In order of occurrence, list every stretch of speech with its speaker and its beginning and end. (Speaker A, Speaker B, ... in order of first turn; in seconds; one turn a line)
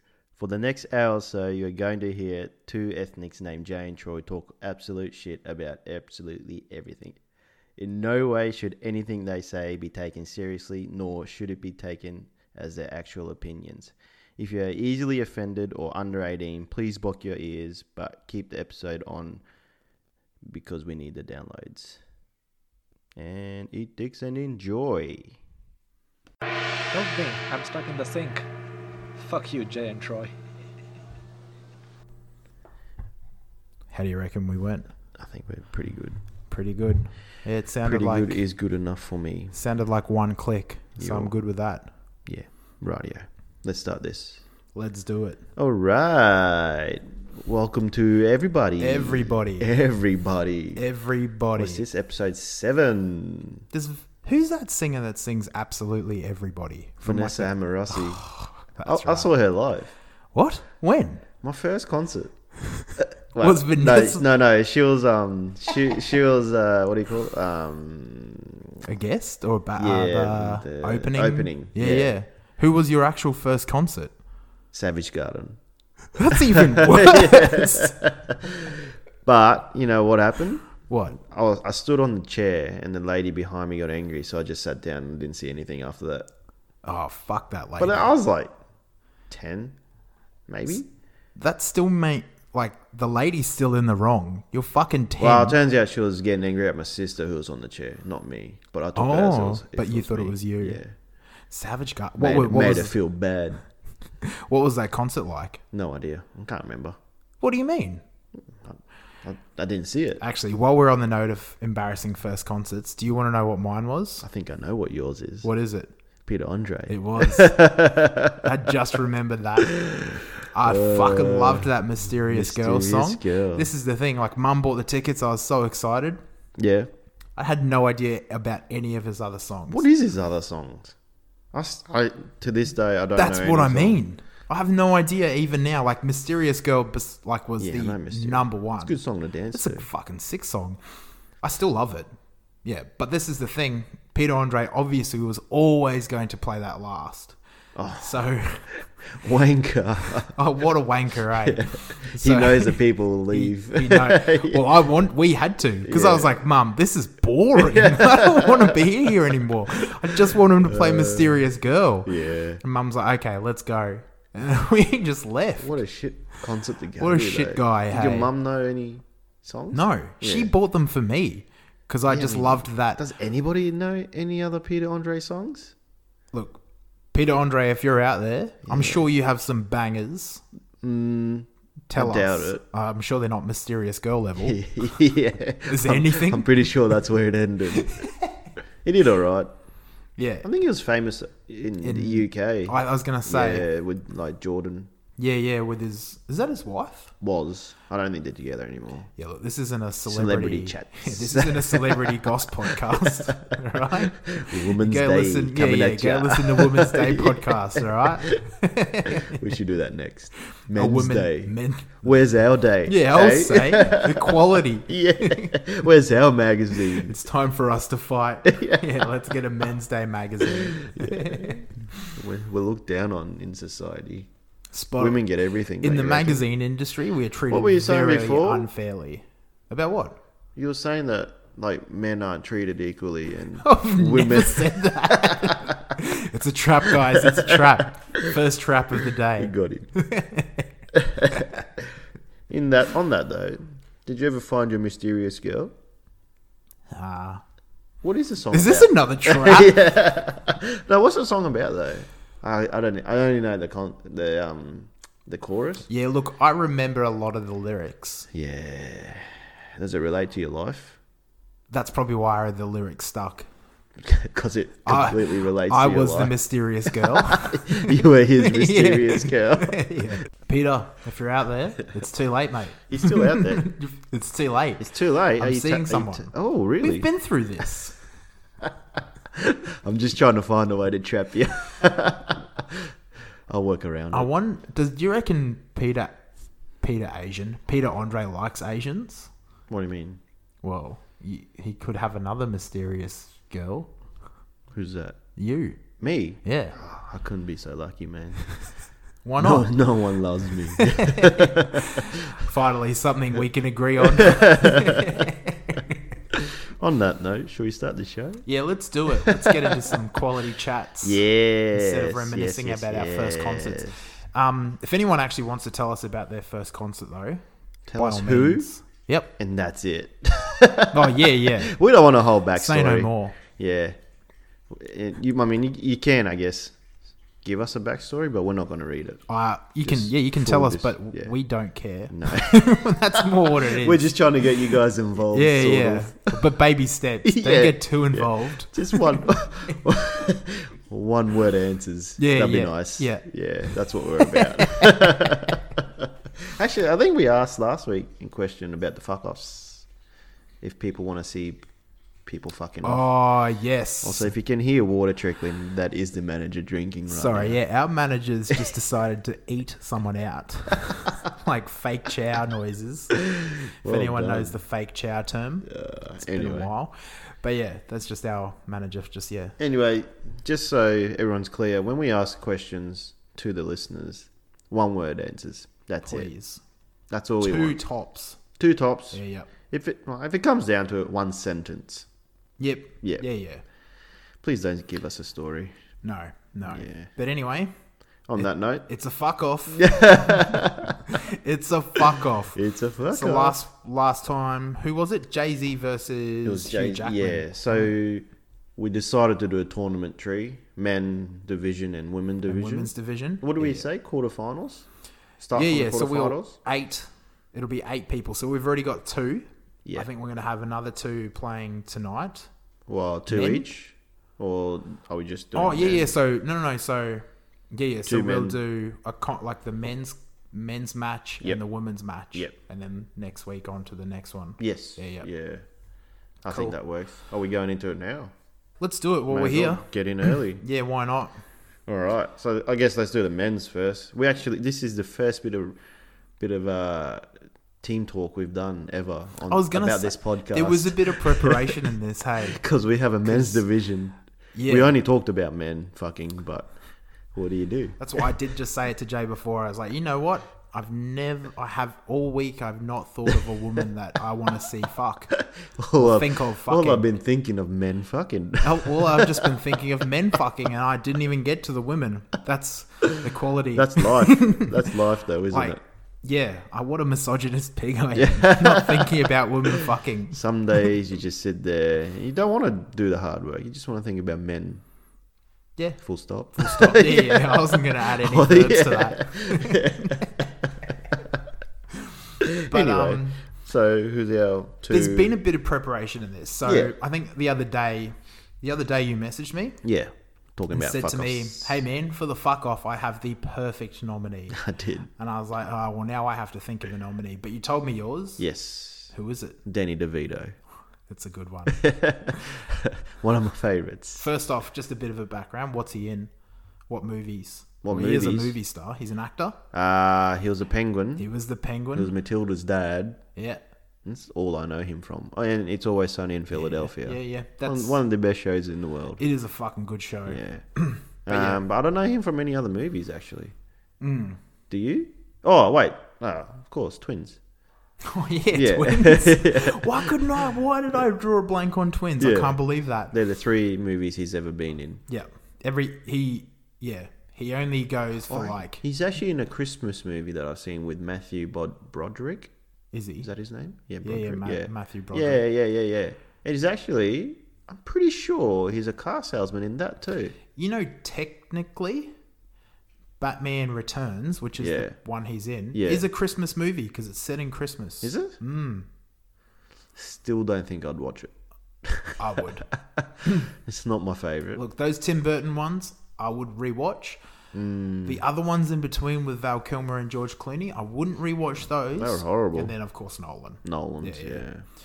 Speaker A: 0.4-7.2
Speaker A: 7.8-19.4
Speaker A: 20.4-22.0
Speaker A: 23.1-25.4
Speaker B: 26.9-28.5
Speaker B: 29.1-30.3
Speaker C: 33.9-34.9
Speaker A: 35.2-36.2
Speaker C: 36.5-38.4
Speaker A: 37.8-39.5
Speaker C: 39.5-41.9
Speaker A: 41.0-41.3
Speaker A: 42.3-44.4
Speaker C: 44.7-45.4
Speaker A: 45.5-50.8
Speaker C: 48.8-49.7
Speaker C: 50.8-51.8
Speaker A: 51.5-53.6
Speaker C: 53.7-59.3
Speaker A: 57.0-58.3
Speaker A: 58.8-59.9
Speaker C: 60.3-61.2
Speaker A: 61.4-62.3
Speaker A: 63.0-68.7
Speaker C: 63.4-64.2
Speaker C: 68.8-74.1
Speaker A: 69.8-72.1
Speaker A: 74.7-75.6
Speaker C: 76.2-77.9
Speaker A: 76.3-86.3
Speaker C: 80.9-81.2
Speaker C: 86.8-88.1
Speaker A: 87.8-88.5
Speaker A: 89.3-89.8
Speaker A: 90.5-90.8
Speaker C: 91.3-95.6
Speaker A: 95.2-100.9
Speaker C: 99.0-100.8
Speaker C: 101.5-102.9
Speaker A: 102.2-103.6
Speaker C: 104.2-105.6
Speaker A: 105.7-107.0
Speaker C: 107.4-108.0
Speaker A: 108.6-110.2
Speaker C: 110.2-114.2
Speaker A: 114.2-115.5
Speaker C: 115.4-115.9
Speaker A: 116.2-118.4
Speaker C: 116.9-119.8
Speaker A: 119.6-123.7
Speaker C: 120.4-126.2
Speaker A: 126.6-126.9
Speaker C: 127.3-129.8
Speaker A: 129.7-130.9
Speaker A: 131.5-134.0
Speaker C: 133.1-139.0
Speaker A: 137.6-139.8
Speaker C: 139.5-140.8
Speaker C: 141.4-142.1
Speaker C: 142.6-147.4
Speaker A: 147.8-148.2
Speaker C: 148.0-148.6
Speaker A: 149.1-150.3
Speaker C: 150.3-152.8
Speaker A: 151.4-154.8
Speaker C: 153.3-165.7
Speaker A: 155.8-156.3
Speaker A: 157.5-161.5
Speaker A: 162.0-162.6
Speaker A: 165.6-170.5
Speaker C: 167.0-168.3
Speaker C: 169.7-173.0
Speaker A: 172.0-175.7
Speaker C: 176.3-176.6
Speaker C: 177.1-180.4
Speaker A: 178.7-179.0
Speaker A: 180.8-182.6
Speaker C: 181.9-184.6
Speaker A: 184.4-188.1
Speaker C: 185.7-186.7
Speaker C: 187.7-188.4
Speaker A: 188.8-189.5
Speaker C: 190.2-190.4
Speaker A: 190.4-194.9
Speaker C: 191.8-193.7
Speaker C: 195.2-197.1
Speaker A: 197.2-199.1
Speaker C: 199.2-209.4
Speaker A: 200.1-203.5
Speaker A: 204.1-208.4
Speaker A: 209.1-217.1
Speaker C: 210.7-212.1
Speaker C: 212.8-215.6
Speaker C: 216.8-221.7
Speaker A: 218.4-219.0
Speaker A: 220.6-224.3
Speaker C: 224.7-225.2
Speaker A: 224.9-226.4
Speaker C: 225.8-230.2
Speaker A: 227.5-228.7
Speaker A: 230.6-235.7
Speaker C: 233.6-240.7
Speaker A: 237.1-238.3
Speaker A: 239.3-239.9
Speaker A: 240.9-241.9
Speaker A: 242.5-245.7
Speaker C: 246.9-247.4
Speaker A: 248.0-255.9
Speaker C: 248.5-249.9
Speaker C: 255.9-258.3
Speaker A: 258.3-261.0
Speaker C: 261.7-263.5
Speaker A: 264.0-266.4
Speaker C: 264.8-277.9
Speaker A: 266.9-270.1
Speaker A: 272.9-273.7
Speaker A: 274.8-277.1
Speaker A: 279.4-282.8
Speaker A: 283.5-284.3
Speaker C: 284.1-286.2
Speaker C: 286.8-289.3
Speaker A: 289.7-290.2
Speaker C: 290.6-293.9
Speaker A: 294.7-295.2
Speaker C: 295.4-295.8
Speaker A: 296.0-298.5
Speaker C: 296.4-296.7
Speaker C: 299.2-299.8
Speaker A: 299.4-302.1
Speaker C: 300.8-306.0
Speaker A: 304.1-305.1
Speaker A: 306.8-308.4
Speaker C: 308.4-317.4
Speaker A: 309.2-309.6
Speaker A: 311.0-314.1
Speaker A: 317.9-318.7
Speaker C: 318.0-319.3
Speaker A: 319.4-324.0
Speaker C: 320.9-321.8
Speaker C: 322.5-323.4
Speaker A: 324.7-326.8
Speaker A: 327.4-329.2
Speaker C: 329.3-334.2
Speaker A: 329.8-331.3
Speaker A: 332.1-332.9
Speaker A: 333.5-336.4
Speaker C: 335.3-339.8
Speaker A: 337.2-345.8
Speaker C: 342.2-345.2
Speaker A: 346.5-349.9
Speaker A: 350.6-351.6
Speaker A: 352.2-353.1
Speaker C: 352.8-354.3
Speaker A: 354.0-357.6
Speaker C: 357.1-363.1
Speaker A: 363.3-364.6
Speaker C: 363.8-365.7
Speaker A: 365.6-366.7
Speaker C: 366.2-369.6
Speaker A: 369.6-376.3
Speaker C: 376.0-376.6
Speaker A: 377.1-377.8
Speaker C: 377.4-378.4
Speaker A: 378.6-382.1
Speaker C: 379.1-379.5
Speaker C: 382.6-383.6
Speaker A: 384.4-385.7
Speaker C: 386.0-387.7
Speaker A: 386.7-387.1
Speaker A: 388.3-388.9
Speaker C: 388.4-390.6
Speaker A: 389.7-391.0
Speaker C: 391.3-392.6
Speaker A: 392.5-393.6
Speaker C: 393.1-397.9
Speaker A: 396.4-404.9
Speaker C: 402.5-403.9
Speaker A: 405.4-406.6
Speaker C: 405.5-412.5
Speaker A: 412.9-416.1
Speaker C: 413.3-413.6
Speaker C: 415.5-425.3
Speaker A: 418.1-418.6
Speaker A: 424.6-425.6
Speaker A: 426.4-428.3
Speaker C: 426.5-426.8
Speaker C: 428.8-431.4
Speaker A: 429.3-430.6
Speaker A: 431.9-435.8
Speaker A: 436.4-437.3
Speaker A: 437.8-441.7
Speaker C: 439.5-442.6
Speaker A: 442.4-446.7
Speaker C: 443.2-443.6
Speaker C: 444.5-444.9
Speaker A: 447.3-448.0
Speaker C: 448.0-455.4
Speaker A: 455.4-459.5
Speaker C: 455.9-457.1
Speaker C: 458.6-464.8
Speaker A: 463.7-465.8
Speaker C: 465.5-470.4
Speaker A: 468.1-469.2
Speaker A: 470.3-474.8
Speaker A: 476.0-481.2
Speaker C: 476.6-480.2
Speaker A: 482.4-485.4
Speaker C: 482.7-483.4
Speaker C: 484.9-489.8
Speaker A: 486.6-486.9
Speaker A: 489.8-491.8
Speaker C: 490.7-494.6
Speaker A: 494.5-495.1
Speaker C: 495.2-498.4
Speaker A: 498.4-499.1
Speaker C: 499.1-499.6
Speaker A: 499.6-500.5
Speaker C: 501.1-501.8
Speaker A: 501.7-504.2
Speaker C: 504.2-506.3
Speaker C: 506.9-509.6
Speaker A: 507.8-508.6
Speaker A: 509.7-511.3
Speaker C: 511.2-512.1
Speaker A: 511.9-513.2
Speaker C: 513.4-513.6
Speaker A: 514.0-519.2
Speaker C: 516.5-518.0
Speaker C: 519.2-521.6
Speaker A: 520.3-520.6
Speaker A: 521.2-523.5
Speaker C: 524.0-524.4
Speaker A: 524.7-527.4
Speaker C: 528.0-533.1
Speaker A: 528.5-530.5
Speaker A: 532.2-532.6
Speaker A: 533.1-535.0
Speaker C: 535.1-538.8
Speaker A: 538.3-542.5
Speaker C: 542.9-543.3
Speaker A: 543.2-550.4
Speaker C: 544.0-545.4
Speaker C: 550.5-552.1
Speaker C: 553.2-558.9
Speaker A: 554.6-555.0
Speaker A: 555.7-556.0
Speaker A: 558.0-558.4
Speaker A: 560.0-561.3
Speaker A: 561.8-562.2
Speaker C: 562.2-562.7
Speaker A: 563.5-564.6
Speaker C: 564.5-567.2
Speaker A: 567.5-568.2
Speaker C: 568.0-574.5
Speaker A: 572.0-572.7
Speaker A: 573.6-574.6